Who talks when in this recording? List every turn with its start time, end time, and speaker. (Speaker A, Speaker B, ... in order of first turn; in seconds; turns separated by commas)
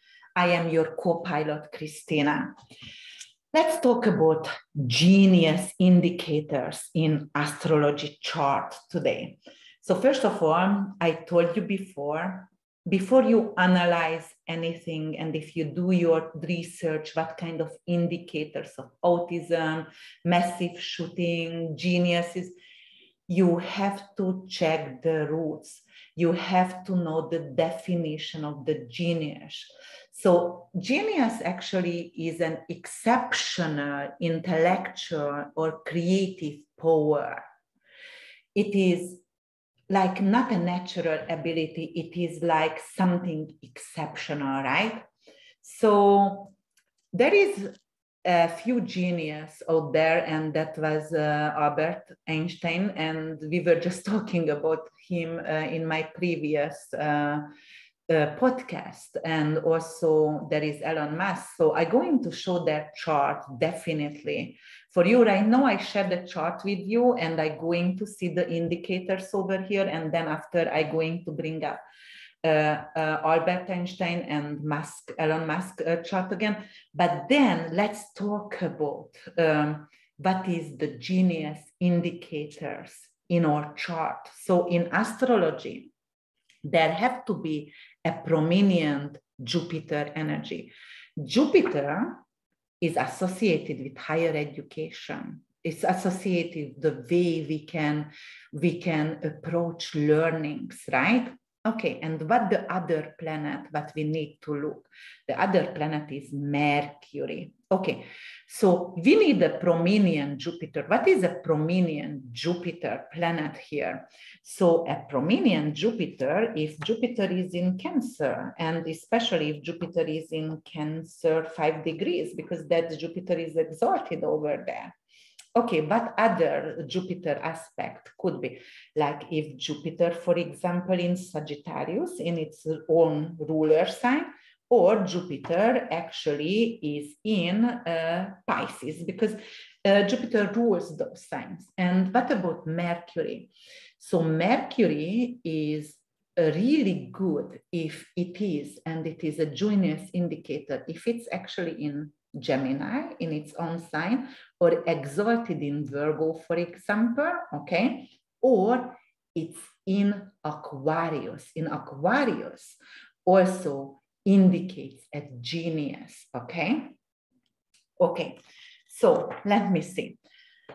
Speaker A: 0.4-2.5, Speaker A: 3.5-22.6, Speaker A: 23.3-37.5, Speaker A: 38.5-39.2, Speaker A: 39.9-45.1, Speaker A: 45.6-46.5, Speaker A: 47.1-57.5, Speaker A: 58.1-71.8, Speaker A: 72.4-85.9, Speaker A: 86.6-92.2, Speaker A: 92.8-125.0, Speaker A: 125.5-167.0, Speaker A: 168.0-170.2